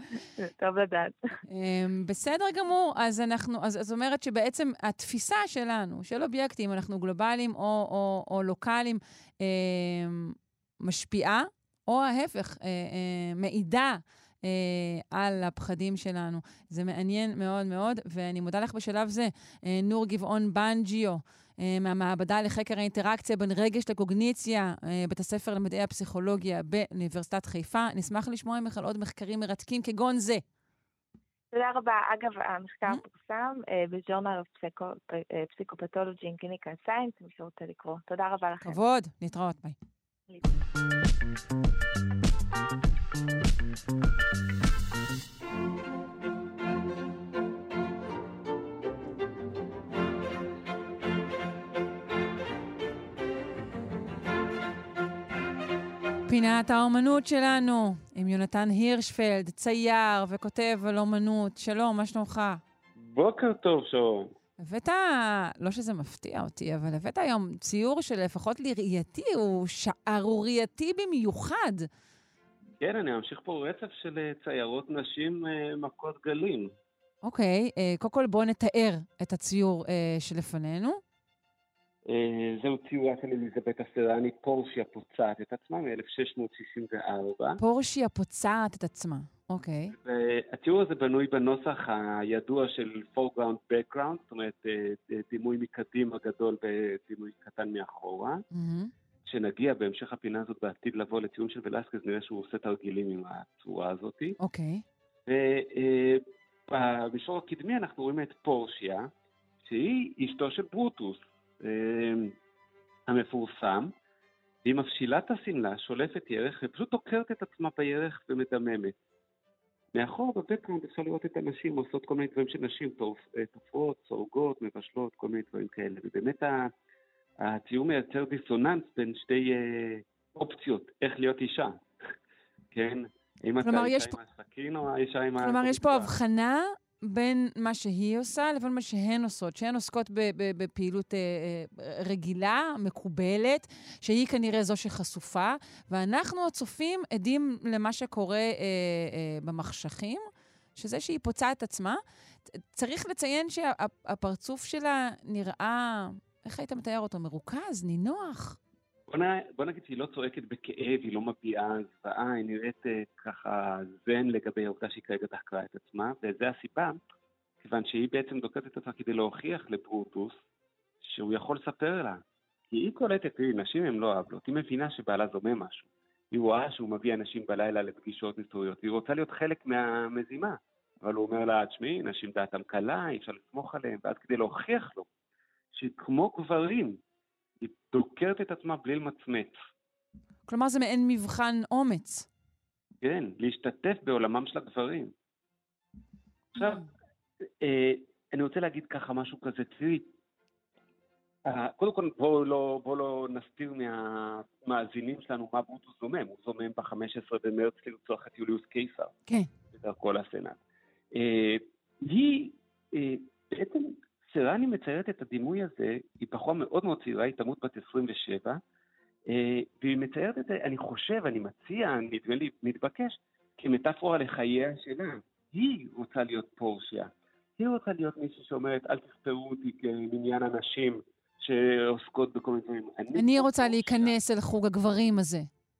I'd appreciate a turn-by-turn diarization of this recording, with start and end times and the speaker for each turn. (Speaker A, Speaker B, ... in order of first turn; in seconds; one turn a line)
Speaker A: 0.4-1.3
Speaker B: 1.5-30.4
Speaker A: 31.5-38.8
Speaker B: 38.6-39.8
Speaker B: 56.3-62.6
Speaker C: 63.0-64.3
Speaker B: 64.6-71.9
Speaker C: 72.8-76.7
Speaker B: 77.2-81.0
Speaker C: 82.1-87.6
Speaker B: 87.6-89.9
Speaker C: 89.9-98.4
Speaker B: 98.5-98.9
Speaker C: 99.2-104.4
Speaker B: 104.4-104.8
Speaker C: 105.3-109.1
Speaker C: 109.6-112.3
Speaker C: 113.1-113.9
Speaker C: 114.6-118.9
Speaker C: 119.9-126.7
Speaker C: 127.4-131.8
Speaker C: 132.7-136.1
Speaker B: 133.6-134.2
Speaker B: 135.4-150.2
Speaker B: 150.8-158.6
Speaker C: 159.1-167.0
Speaker C: 167.6-170.4
Speaker C: 171.0-185.1
Speaker C: 185.7-187.0
Speaker C: 187.6-189.6
Speaker B: 190.5-192.3
Speaker C: 193.0-195.1
Speaker C: 196.6-196.8
Speaker B: 196.6-196.8
Speaker C: 197.6-200.1
Speaker C: 201.4-209.1
Speaker C: 209.7-210.6
Speaker C: 211.1-218.6
Speaker C: 219.3-234.2
Speaker B: 233.1-235.5